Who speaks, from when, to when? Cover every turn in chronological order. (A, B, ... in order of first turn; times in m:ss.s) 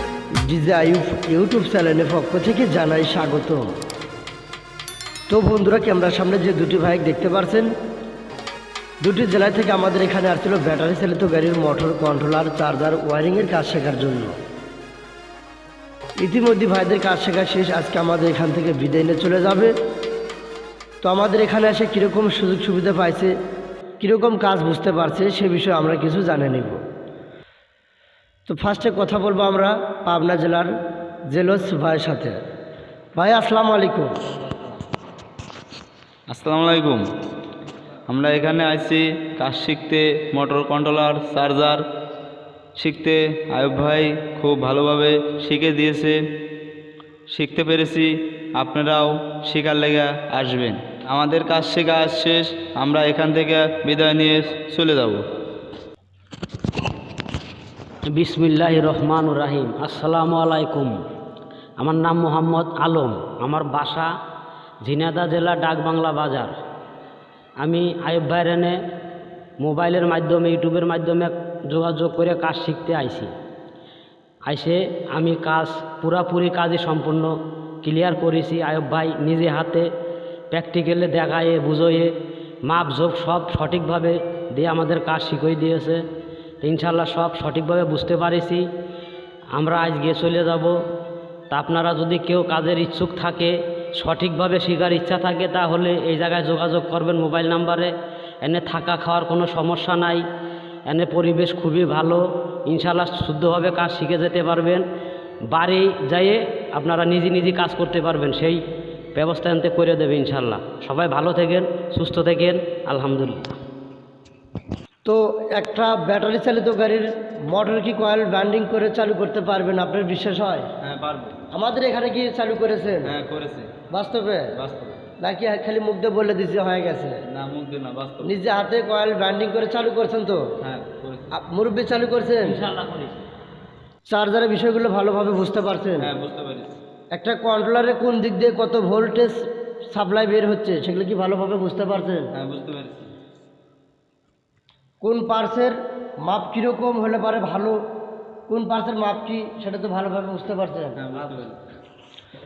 0:00.4-0:03.7 A
0:05.3-0:07.7 A
0:09.0-0:14.4 A
0:16.2-0:19.7 A
0:21.0-0:23.3 A
0:24.0-0:26.8 A
0:28.5-0:30.7 A
0:31.3-0:32.4 A
0:33.2-0:34.1 A
0:36.3-0:37.0 B
0:38.1-0:41.8 B
0:42.8-0:46.2 B
0:47.3-0:55.2 B
0:58.1-1:01.0 C
1:01.8-1:04.1 C
1:04.8-1:06.5 C
1:07.6-1:08.8 C
1:09.6-1:13.3 C
1:14.4-1:17.3 C
1:17.8-1:19.9 C
1:20.5-1:22.1 C
1:22.6-1:26.0 C
1:26.6-1:28.6 C
1:29.5-1:30.7 C
1:31.5-1:40.2 C
1:40.9-1:44.8 C
1:45.5-1:48.6 C
1:49.1-1:53.5 C
1:55.0-2:00.7 A
2:00.8-2:01.4 B
2:01.5-2:03.1 A
2:03.0-2:03.7 B
2:03.9-2:04.5 A
2:04.6-2:05.0 B
2:05.2-2:07.2 A
2:07.3-2:08.3 B
2:08.2-2:10.4 A
2:10.6-2:11.3 B
2:11.3-2:12.6 A
2:12.4-2:13.2 C
2:14.0-2:16.1 A
2:16.0-2:16.8 B
2:17.1-2:19.4 A
2:19.9-2:22.3 A
2:22.3-2:23.1 B
2:25.0-2:27.8 A
2:28.5-2:31.0 A
2:31.0-2:31.6 B